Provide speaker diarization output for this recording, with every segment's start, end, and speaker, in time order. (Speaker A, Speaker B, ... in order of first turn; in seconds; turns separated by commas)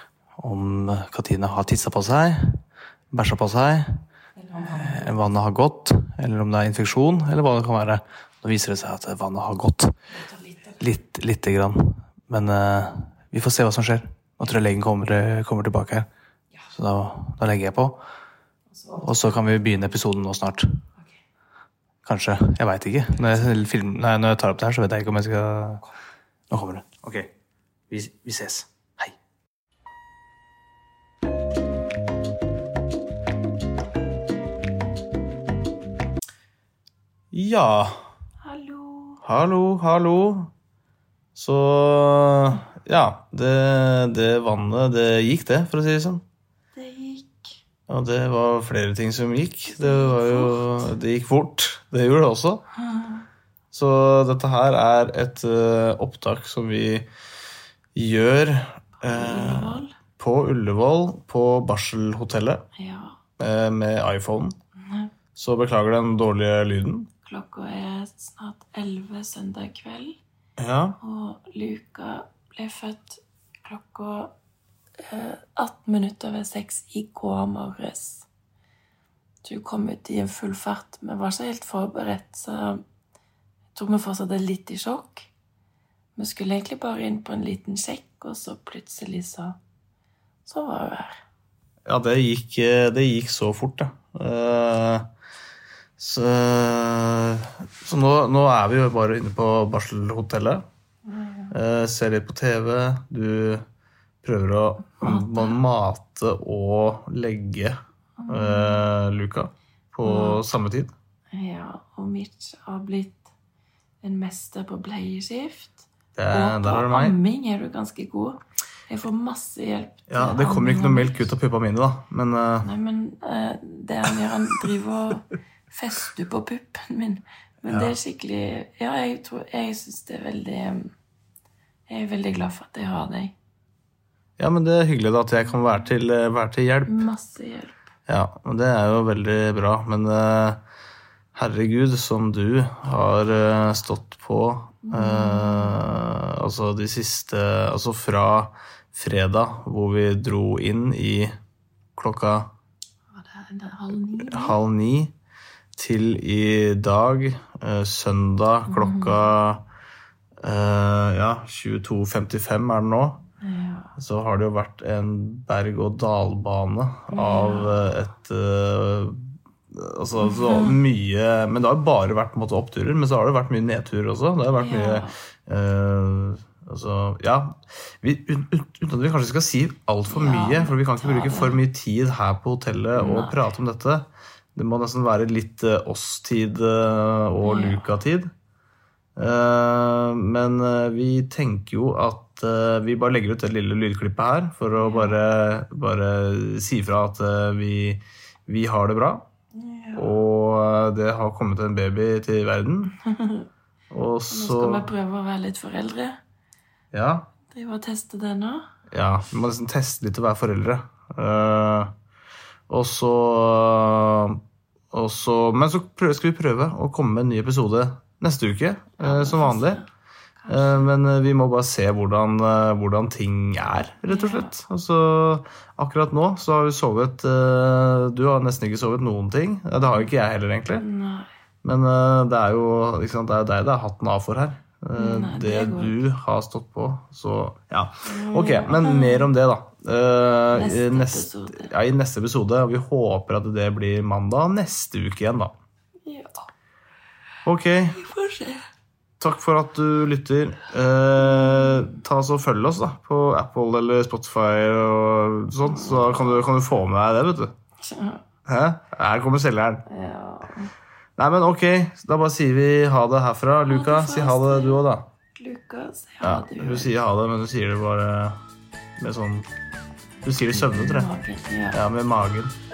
Speaker A: 0.4-4.0, Speaker B: 4.4-5.0, Speaker A: 4.6-9.9, Speaker B: 10.2-10.8, Speaker A: 10.8-16.1, Speaker A: 16.7-18.0, Speaker B: 18.8-19.1, Speaker A: 19.0-20.8, Speaker A: 22.0-25.8, Speaker A: 26.5-27.3, Speaker A: 27.9-29.1, Speaker A: 37.3-37.9, Speaker B: 38.4-39.2, Speaker A: 39.2-40.5, Speaker A: 41.3-46.2, Speaker B: 46.7-47.6, Speaker A: 47.9-52.6, Speaker B: 49.6-50.9, Speaker B: 52.7-53.2, Speaker A: 53.7-57.0, Speaker A: 57.9-62.6, Speaker B: 59.0-60.0, Speaker B: 62.7-63.2, Speaker A: 63.4-64.5, Speaker B: 64.8-65.1, Speaker A: 65.3-67.1, Speaker B: 67.2-70.2, Speaker A: 70.6-71.0, Speaker B: 71.0-74.3, Speaker B: 75.1-78.3, Speaker B: 79.4-82.8, Speaker B: 83.7-85.3, Speaker B: 86.2-89.5, Speaker B: 90.4-91.2, Speaker A: 91.8-95.1, Speaker A: 96.0-100.6, Speaker B: 101.0-101.5, Speaker A: 101.5-103.6, Speaker A: 104.2-107.8, Speaker B: 105.0-105.6, Speaker B: 108.2-108.9, Speaker A: 108.3-110.9, Speaker B: 110.0-110.4, Speaker B: 111.3-113.3, Speaker B: 114.0-121.3, Speaker A: 116.1-117.2, Speaker A: 120.1-122.7, Speaker B: 122.6-130.9, Speaker A: 127.6-128.0, Speaker B: 131.9-133.3, Speaker A: 134.4-137.0, Speaker B: 136.8-137.8, Speaker A: 138.1-140.6, Speaker A: 141.3-151.3, Speaker B: 144.9-145.9, Speaker A: 152.0-152.5, Speaker B: 153.1-154.6, Speaker A: 154.2-155.1, Speaker A: 155.8-159.6, Speaker B: 158.7-159.3, Speaker A: 160.4-163.2, Speaker B: 163.4-163.9, Speaker A: 164.0-188.3, Speaker B: 167.1-167.8, Speaker B: 170.2-170.8, Speaker B: 174.5-175.1, Speaker B: 180.1-181.6, Speaker B: 182.9-183.4, Speaker B: 187.4-187.9, Speaker A: 189.2-199.2, Speaker B: 194.8-195.2, Speaker B: 199.5-200.2, Speaker A: 199.9-202.9, Speaker B: 203.0-203.5, Speaker A: 203.9-204.9, Speaker B: 204.3-206.2, Speaker A: 206.9-207.3, Speaker B: 207.5-208.7, Speaker A: 208.9-211.9, Speaker A: 212.7-214.4, Speaker A: 214.9-219.8, Speaker B: 219.0-219.9, Speaker B: 220.4-220.9, Speaker A: 220.5-230.8, Speaker B: 224.1-224.6, Speaker B: 229.8-230.1, Speaker B: 230.8-231.3, Speaker A: 231.6-245.5, Speaker B: 234.9-236.0, Speaker B: 238.0-239.3, Speaker B: 240.5-241.7, Speaker B: 246.0-246.5, Speaker A: 247.4-248.0, Speaker B: 247.9-248.7, Speaker A: 249.2-257.5, Speaker B: 251.4-251.9, Speaker B: 255.6-256.5, Speaker B: 257.8-258.2, Speaker A: 258.4-259.8, Speaker B: 259.9-260.7, Speaker A: 261.2-265.1, Speaker B: 263.6-266.9, Speaker A: 266.2-268.4, Speaker A: 269.0-269.5, Speaker A: 270.2-271.1, Speaker B: 270.6-271.8, Speaker A: 271.7-272.5